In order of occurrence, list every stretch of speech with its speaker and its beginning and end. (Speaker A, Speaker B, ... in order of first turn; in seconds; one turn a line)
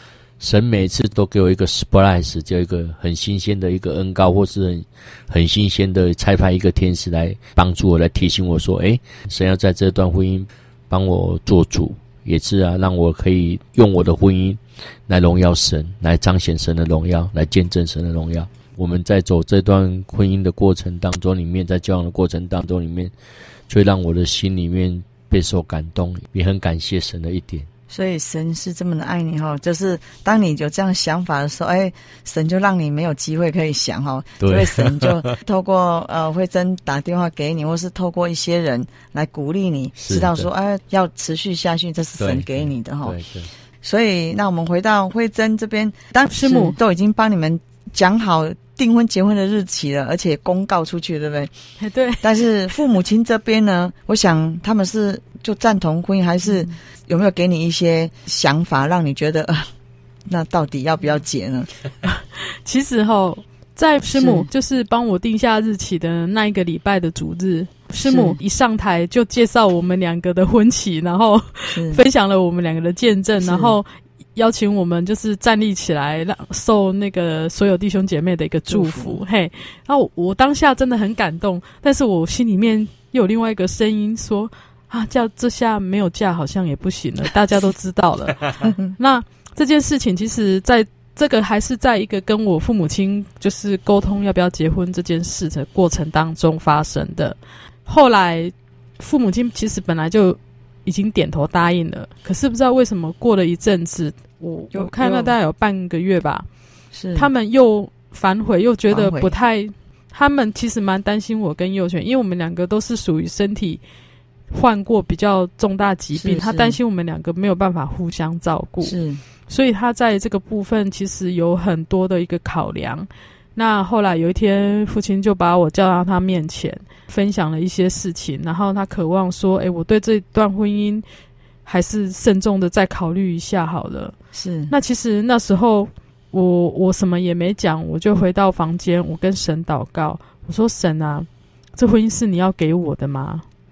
Speaker A: 0.4-23.1
Speaker A: 23.7-27.7
Speaker B: 27.9-43.1
Speaker A: 34.4-35.2
Speaker A: 40.0-40.5
Speaker A: 42.2-43.5
Speaker B: 43.8-51.5
Speaker C: 46.3-46.8
Speaker C: 51.8-52.2
Speaker B: 52.2-59.7
Speaker B: 60.3-61.7
Speaker C: 62.0-106.5
Speaker B: 64.1-64.5
Speaker B: 68.0-68.4
Speaker B: 71.7-72.0
Speaker B: 73.4-73.8
Speaker B: 78.7-79.2
Speaker B: 88.6-88.9
Speaker B: 104.7-105.3
Speaker B: 106.9-107.3
Speaker C: 107.1-113.8
Speaker B: 108.9-109.3
Speaker C: 114.5-119.0
Speaker B: 116.1-116.8
Speaker B: 118.8-119.2
Speaker C: 119.5-131.0
Speaker C: 131.7-134.1
Speaker B: 134.3-134.7
Speaker C: 134.7-143.4